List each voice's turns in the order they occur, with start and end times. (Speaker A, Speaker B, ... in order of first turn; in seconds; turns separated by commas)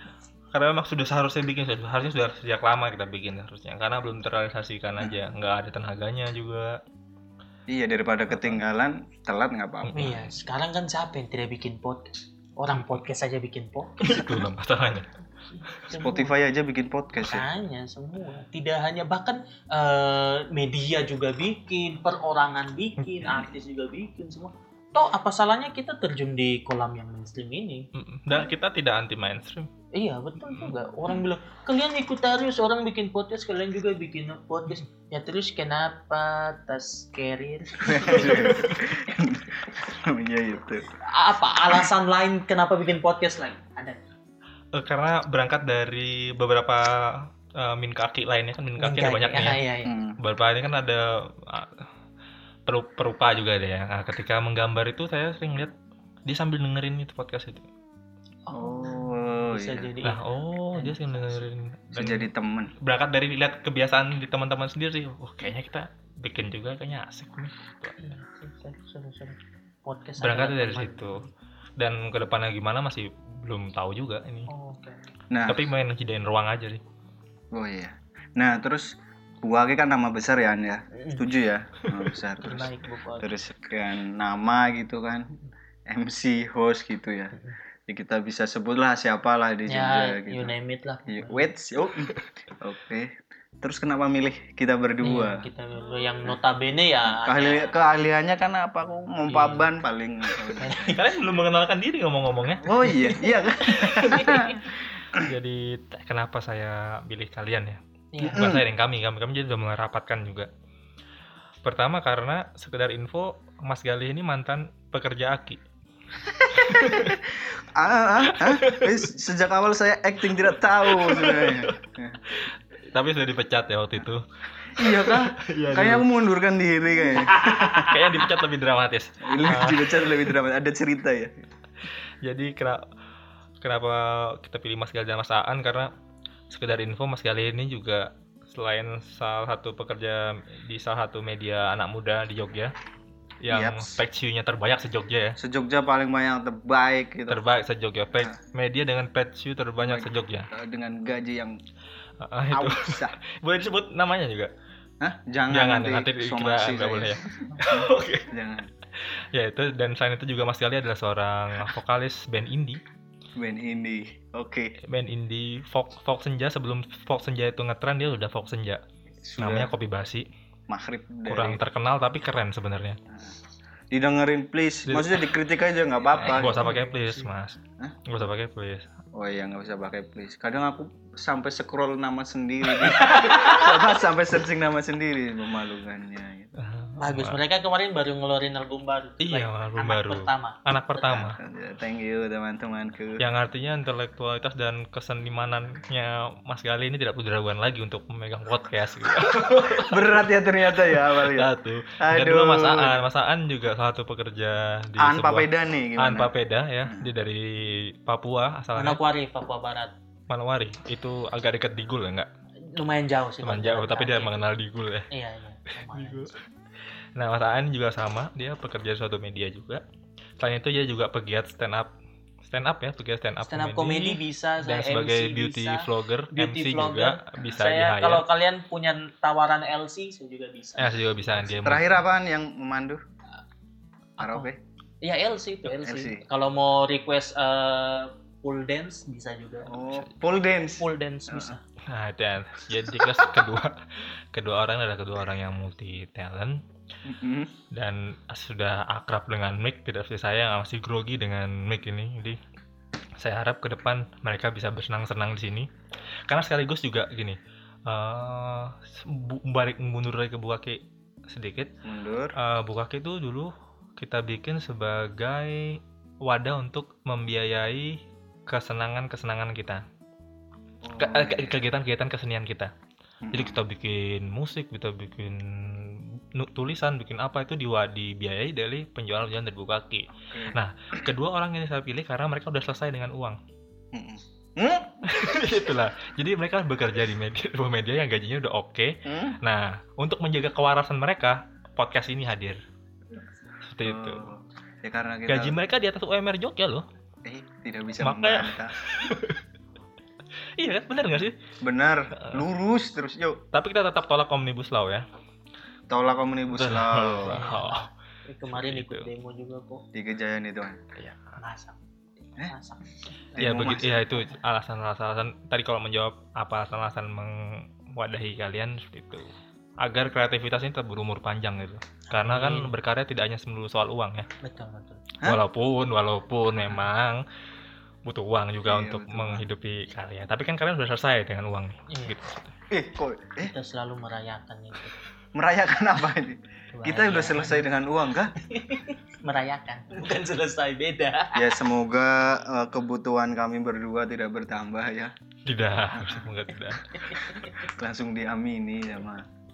Speaker A: 0.5-6.8, Speaker B: 5.0-5.2, Speaker B: 7.7-10.1, Speaker A: 8.3-8.6, Speaker A: 9.8-10.2, Speaker C: 9.9-14.4, Speaker A: 12.7-13.0, Speaker A: 14.0-15.1, Speaker C: 15.5-16.4, Speaker B: 15.9-17.5, Speaker C: 17.2-27.9, Speaker A: 23.0-23.4, Speaker A: 27.9-29.7, Speaker C: 29.9-38.7, Speaker B: 37.8-40.9, Speaker A: 38.3-38.7, Speaker C: 41.0-44.0, Speaker A: 44.7-49.6, Speaker C: 48.8-49.9, Speaker B: 49.8-50.2, Speaker A: 50.2-51.8, Speaker A: 52.6-55.7, Speaker A: 56.2-57.7, Speaker C: 58.5-61.4, Speaker B: 58.5-59.9, Speaker A: 60.0-62.3, Speaker B: 61.9-62.7, Speaker A: 62.8-68.0, Speaker C: 68.0-71.3, Speaker A: 70.2-71.2, Speaker A: 71.8-74.5, Speaker C: 74.5-75.1, Speaker B: 75.3-75.6, Speaker A: 75.5-76.8, Speaker B: 77.5-85.3, Speaker C: 80.9-81.2, Speaker C: 82.4-83.3, Speaker B: 85.9-87.3, Speaker B: 87.9-90.5, Speaker C: 89.7-91.5, Speaker B: 91.1-95.4, Speaker C: 95.0-97.7, Speaker B: 97.1-101.0, Speaker C: 99.3-99.7, Speaker C: 100.6-101.0, Speaker A: 100.9-102.8, Speaker B: 102.6-104.6, Speaker C: 102.8-103.3, Speaker A: 103.6-104.4, Speaker C: 104.0-104.6, Speaker A: 105.1-110.5, Speaker C: 108.1-108.5, Speaker B: 108.2-108.6, Speaker A: 111.6-115.6, Speaker B: 116.3-122.2, Speaker A: 116.5-117.2, Speaker A: 118.2-119.0, Speaker A: 120.8-121.8, Speaker A: 122.3-124.2, Speaker B: 124.7-127.9, Speaker A: 124.8-126.0, Speaker C: 127.4-127.9, Speaker A: 127.8-130.3, Speaker B: 129.2-131.4, Speaker A: 132.2-132.8, Speaker A: 133.6-135.9, Speaker A: 136.5-142.7, Speaker A: 143.4-145.4, Speaker B: 143.5-144.0, Speaker B: 145.4-147.4, Speaker A: 147.3-150.5, Speaker B: 149.8-151.6, Speaker A: 152.2-154.5, Speaker B: 152.5-153.2, Speaker B: 155.0-158.7, Speaker A: 155.5-158.3, Speaker A: 159.3-162.8, Speaker B: 163.4-164.7, Speaker A: 164.8-168.8, Speaker B: 169.2-169.7, Speaker A: 169.4-170.3, Speaker B: 170.7-171.6, Speaker A: 171.3-173.0, Speaker B: 173.1-173.3, Speaker B: 173.9-176.9, Speaker A: 174.9-175.3, Speaker A: 176.2-178.9, Speaker B: 179.1-186.5, Speaker C: 182.9-183.9, Speaker A: 186.6-187.4, Speaker C: 187.0-191.3, Speaker A: 189.2-191.4, Speaker B: 191.1-193.2, Speaker A: 193.2-200.2, Speaker B: 199.5-203.0, Speaker A: 200.8-209.0, Speaker B: 205.0-206.3, Speaker B: 206.8-207.1, Speaker C: 208.8-209.9, Speaker A: 210.3-212.3, Speaker C: 212.7-214.4, Speaker A: 213.4-215.1, Speaker C: 215.1-216.4, Speaker A: 215.9-216.4, Speaker A: 217.2-219.8, Speaker A: 220.4-221.9, Speaker A: 222.4-228.2, Speaker C: 223.5-231.0, Speaker A: 230.8-232.0, Speaker B: 231.6-233.0, Speaker C: 234.2-234.5, Speaker B: 234.2-234.6, Speaker C: 235.0-240.0, Speaker B: 235.6-236.2, Speaker B: 239.7-241.5, Speaker C: 240.8-241.6, Speaker A: 241.8-246.6, Speaker B: 247.0-247.5, Speaker A: 247.7-252.4, Speaker A: 253.2-255.7, Speaker A: 256.3-261.7, Speaker B: 261.8-262.3, Speaker A: 262.4-269.8, Speaker B: 270.8-271.6, Speaker A: 271.0-272.7, Speaker B: 273.2-273.6, Speaker A: 273.3-283.4, Speaker B: 280.3-280.6, Speaker B: 283.9-285.0, Speaker A: 285.0-292.6, Speaker B: 289.0-289.4, Speaker A: 293.6-294.3, Speaker B: 293.8-295.6, Speaker A: 295.3-296.8, Speaker B: 297.2-298.7, Speaker A: 298.0-299.4, Speaker A: 300.6-301.4, Speaker B: 301.6-303.4, Speaker A: 302.2-302.4, Speaker A: 303.5-305.1, Speaker B: 305.9-307.4, Speaker A: 306.5-307.9, Speaker C: 307.2-309.8, Speaker A: 308.5-309.1, Speaker B: 309.9-310.8, Speaker A: 310.9-311.3, Speaker C: 311.4-313.2, Speaker B: 313.3-314.1, Speaker A: 313.4-324.3, Speaker C: 322.1-322.7, Speaker C: 324.4-325.0, Speaker A: 325.2-327.2, Speaker A: 328.0-332.5, Speaker B: 328.6-329.4, Speaker C: 331.9-332.1, Speaker B: 332.7-333.5, Speaker C: 333.4-335.0, Speaker B: 335.3-338.3, Speaker C: 336.7-337.7, Speaker C: 338.4-341.5, Speaker B: 341.3-345.1, Speaker A: 345.4-347.0, Speaker B: 347.2-349.2